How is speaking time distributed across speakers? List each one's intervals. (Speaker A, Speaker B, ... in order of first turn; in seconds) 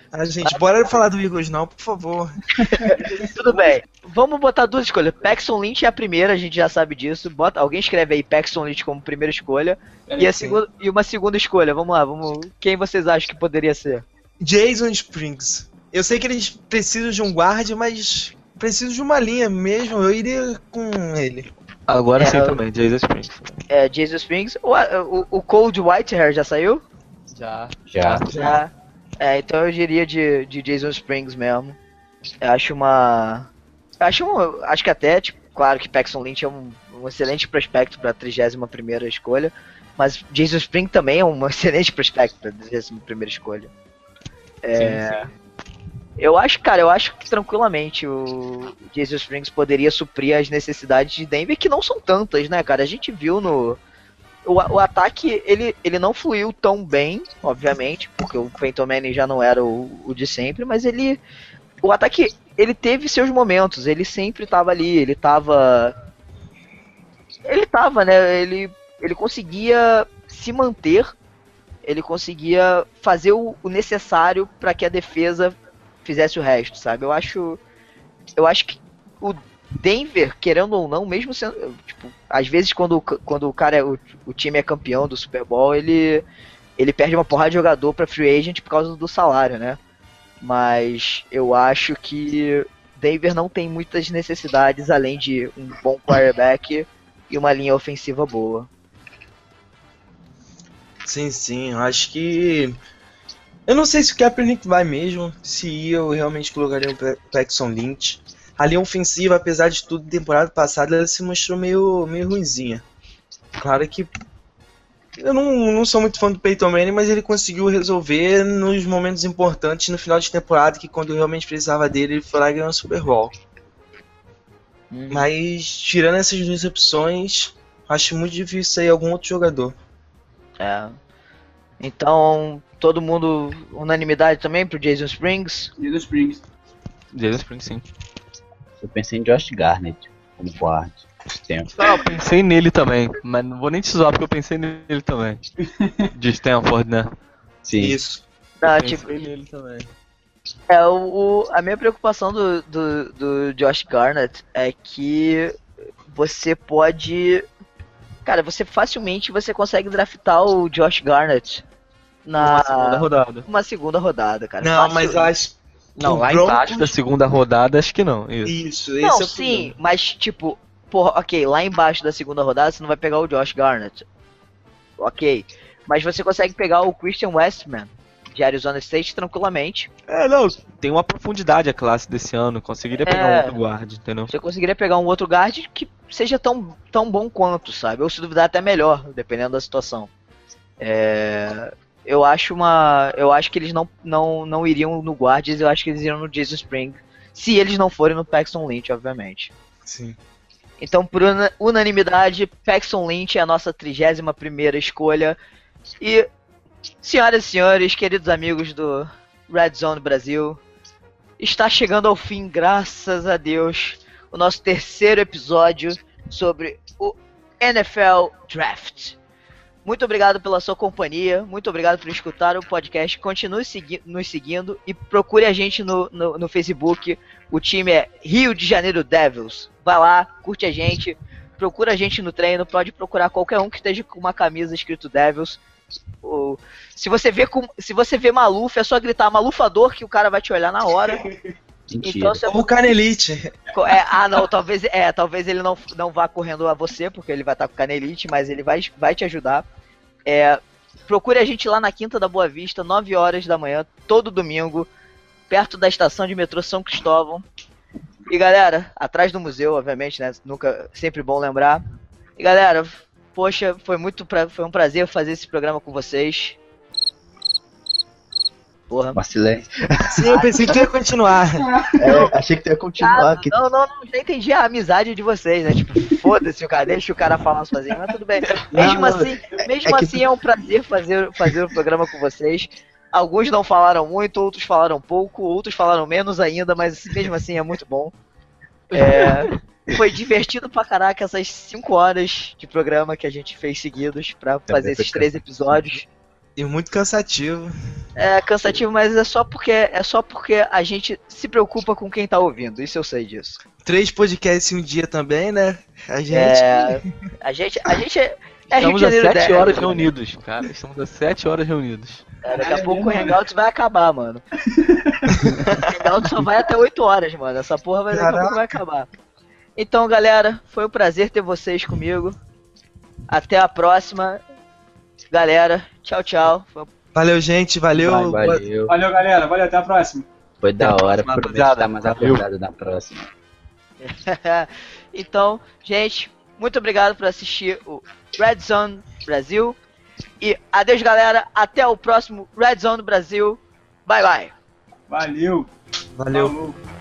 Speaker A: 0.1-2.4, 14.4-21.5, 101.0-102.8, 103.7-112.8, 113.6-114.1, 115.2-123.3, 125.1-129.7, 147.8-148.2, 164.6-166.9, 168.4-169.7, 199.8-200.2, 242.4-243.5, 270.1-271.7, 278.7-279.2, 296.6-297.7, 303.8-307.0, 315.4-315.9, 318.1-318.8, 327.1-328.7, 346.1-346.5
Speaker B: 0.4-1.0, 2.6-14.0, 22.2-22.6, 23.7-26.8, 28.3-31.8, 32.4-33.5, 34.0-43.7, 44.6-45.3, 46.2-53.8, 54.4-61.2, 61.8-65.9, 67.5-71.1, 71.8-77.6, 78.4-86.2, 86.8-89.8, 90.4-98.7, 124.9-125.3, 130.6-130.9, 131.8-135.7, 148.6-149.1, 150.7-155.5, 156.1-157.4, 158.2-161.6, 162.2-165.3, 166.0-166.5, 169.0-174.0, 175.0-179.9, 183.0-183.6, 184.3-190.1, 190.8-199.5, 200.8-205.4, 206.0-206.3, 207.0-210.6, 211.4-219.2, 219.8-235.6, 236.2-241.2, 242.0-242.6, 243.7-249.7, 250.2-254.9, 255.5-257.4, 258.3-261.8, 262.4-266.6, 268.9-269.2, 270.3-270.9, 273.0-288.1, 288.9-296.1, 298.1-303.6, 306.3-310.1, 312.4-314.4, 315.9-319.1, 319.8-322.4, 323.3-324.4, 325.3-326.9, 334.0-339.8, 340.4-344.5
Speaker C: 2.6-3.8, 10.1-10.5, 135.8-136.4, 145.6-146.1, 241.2-241.4, 271.6-272.2, 312.5-313.4, 314.6-315.5, 328.8-330.3, 345.1-345.7, 346.3-346.8
Speaker D: 21.9-23.6, 27.3-28.3, 44.7-45.2, 137.1-137.8, 141.8-145.4, 146.1-147.1, 148.6-149.9, 162.3-163.4, 166.0-168.5, 180.1-184.3, 278.4-279.2, 288.9-289.5, 308.7-312.2, 330.8-332.4
Speaker E: 27.9-28.3, 138.8-141.9, 147.6-148.0, 241.9-242.5, 269.1-270.4, 272.0-273.5, 278.8-279.1, 279.9-280.1, 294.7-296.0, 327.9-328.9, 330.6-333.3